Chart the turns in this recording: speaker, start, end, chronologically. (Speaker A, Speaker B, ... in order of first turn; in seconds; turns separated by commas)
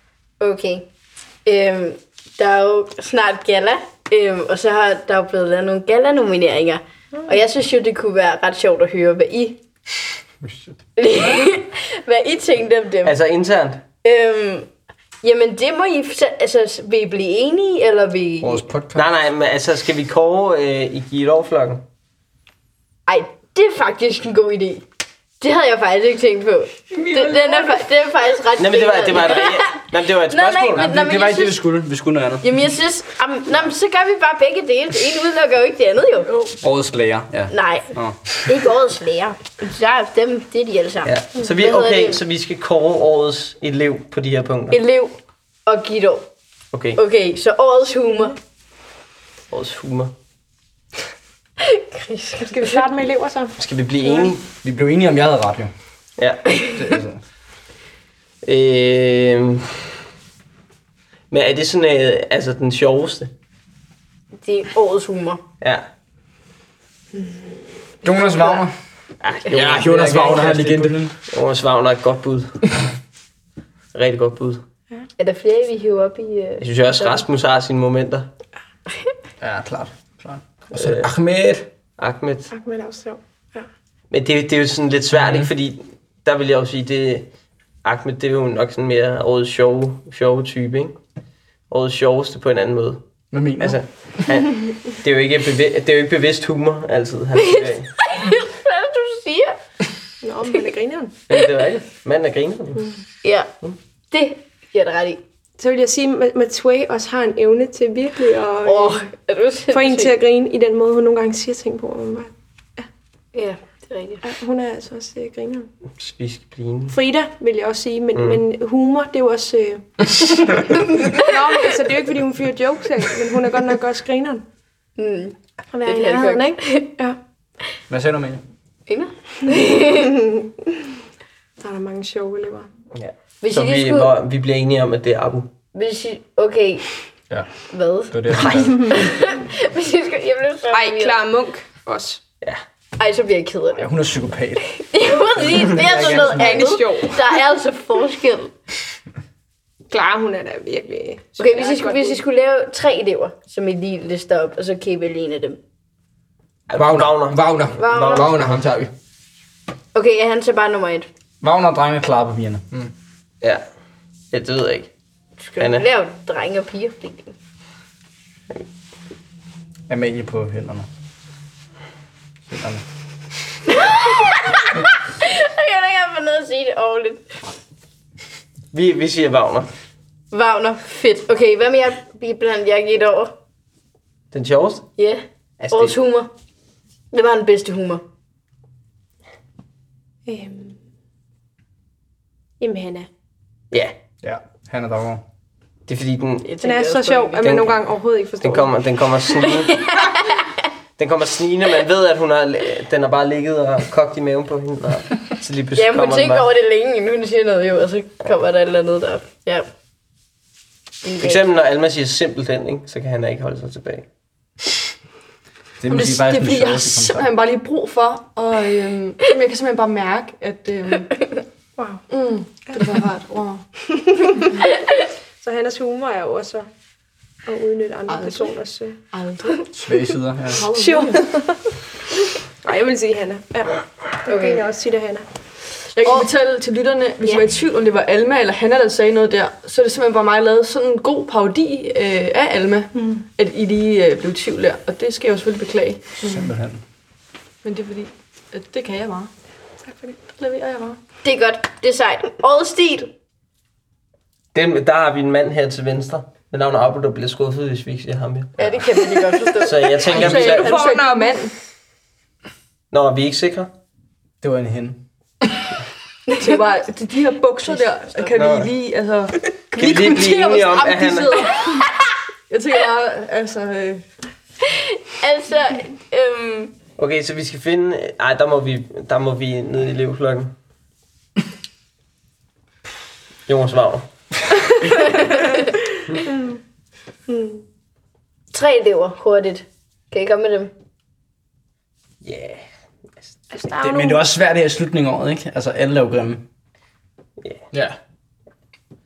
Speaker A: 0.4-0.9, Speaker A: 1.4-9.6, Speaker A: 11.0-13.1, Speaker B: 13.0-13.8, Speaker A: 14.0-14.7, Speaker A: 15.2-18.6, Speaker C: 18.4-19.1, Speaker B: 18.9-21.8, Speaker A: 23.1-24.8, Speaker A: 25.4-31.6, Speaker D: 26.9-27.8, Speaker B: 28.6-30.9, Speaker C: 30.7-32.6, Speaker A: 32.4-36.3, Speaker C: 36.6-38.2, Speaker A: 37.5-42.2, Speaker B: 41.0-44.8, Speaker A: 44.7-46.3, Speaker B: 46.7-47.0, Speaker A: 47.0-48.4, Speaker B: 49.5-50.1, Speaker A: 51.6-52.8, Speaker E: 52.4-54.3, Speaker B: 53.6-54.4, Speaker C: 54.6-55.7, Speaker C: 56.7-57.2, Speaker B: 58.4-59.9, Speaker B: 61.3-63.3, Speaker A: 64.4-65.4, Speaker B: 65.6-65.9, Speaker C: 68.0-68.7, Speaker B: 69.2-70.5, Speaker F: 69.5-71.0, Speaker C: 69.5-71.1, Speaker B: 71.3-72.6, Speaker B: 73.9-74.6, Speaker A: 75.2-77.2, Speaker B: 76.6-78.3, Speaker C: 79.4-80.4, Speaker F: 80.7-81.7, Speaker B: 80.7-81.1, Speaker B: 82.0-82.5, Speaker E: 82.5-83.7, Speaker B: 84.1-87.3, Speaker B: 87.8-91.0, Speaker B: 91.7-93.0, Speaker C: 93.3-93.8, Speaker B: 93.6-97.9, Speaker A: 97.6-99.6, Speaker E: 100.2-101.1, Speaker B: 101.3-103.0, Speaker A: 103.2-103.5, Speaker A: 104.1-105.2, Speaker E: 105.6-109.1, Speaker A: 108.6-110.1, Speaker E: 109.7-112.8, Speaker A: 113.3-114.2, Speaker E: 114.2-115.7, Speaker B: 116.0-116.9, Speaker E: 116.9-124.4, Speaker B: 118.1-118.4, Speaker A: 125.0-126.9, Speaker E: 125.7-127.2, Speaker C: 127.9-128.4, Speaker A: 128.9-130.1, Speaker E: 131.6-132.7, Speaker B: 132.9-135.5, Speaker A: 133.4-134.1, Speaker A: 135.7-136.8, Speaker A: 137.7-141.2, Speaker C: 138.1-138.8, Speaker E: 140.7-142.2, Speaker A: 143.0-143.9, Speaker C: 143.8-144.6, Speaker A: 144.8-148.5, Speaker C: 145.4-146.8, Speaker E: 145.8-147.2, Speaker E: 149.9-152.2, Speaker A: 151.4-155.6, Speaker B: 156.7-158.6, Speaker F: 156.7-158.9, Speaker A: 157.8-158.3, Speaker A: 159.9-161.1, Speaker C: 161.4-162.6, Speaker B: 164.3-164.9, Speaker A: 165.4-167.3, Speaker B: 165.6-165.8, Speaker C: 169.9-170.9, Speaker C: 172.5-172.8, Speaker A: 173.7-177.4, Speaker B: 178.7-179.7, Speaker A: 180.3-183.3, Speaker B: 184.3-184.9, Speaker A: 185.0-186.3, Speaker B: 185.6-185.9, Speaker A: 187.1-188.0, Speaker E: 190.2-190.8, Speaker E: 192.6-193.1, Speaker C: 194.2-195.2, Speaker B: 195.9-196.5, Speaker A: 196.4-197.4, Speaker E: 196.6-198.8, Speaker B: 197.4-197.9, Speaker B: 198.4-199.9, Speaker A: 199.8-200.3, Speaker B: 201.0-206.5, Speaker A: 205.7-209.7, Speaker A: 211.0-211.4, Speaker B: 211.2-214.1, Speaker C: 215.8-217.3, Speaker D: 215.9-221.2, Speaker E: 221.8-222.1, Speaker D: 222.1-223.6, Speaker E: 224.0-224.7, Speaker E: 225.4-226.7, Speaker E: 227.4-229.0, Speaker D: 228.1-228.5, Speaker D: 229.1-229.6, Speaker C: 229.7-230.6, Speaker D: 230.5-231.3, Speaker E: 230.7-231.7, Speaker E: 232.6-235.3, Speaker A: 234.3-234.6, Speaker D: 235.9-246.5, Speaker C: 246.2-246.8, Speaker D: 247.6-249.3, Speaker E: 249.8-250.2, Speaker D: 250.3-251.0, Speaker A: 251.2-253.1, Speaker B: 254.5-258.6, Speaker A: 258.6-259.9, Speaker B: 259.6-260.8, Speaker D: 260.0-261.5, Speaker E: 260.3-261.4, Speaker B: 262.9-263.7, Speaker C: 264.4-265.0, Speaker D: 266.3-271.9, Speaker B: 268.3-268.7, Speaker B: 269.7-271.5, Speaker D: 272.5-274.1, Speaker A: 274.7-276.7, Speaker B: 277.0-280.5, Speaker B: 283.5-284.1, Speaker E: 286.2-286.6, Speaker E: 287.3-287.6, Speaker A: 288.5-290.7, Speaker B: 292.2-292.7, Speaker E: 293.5-294.2, Speaker C: 293.8-296.4, Speaker F: 297.7-298.0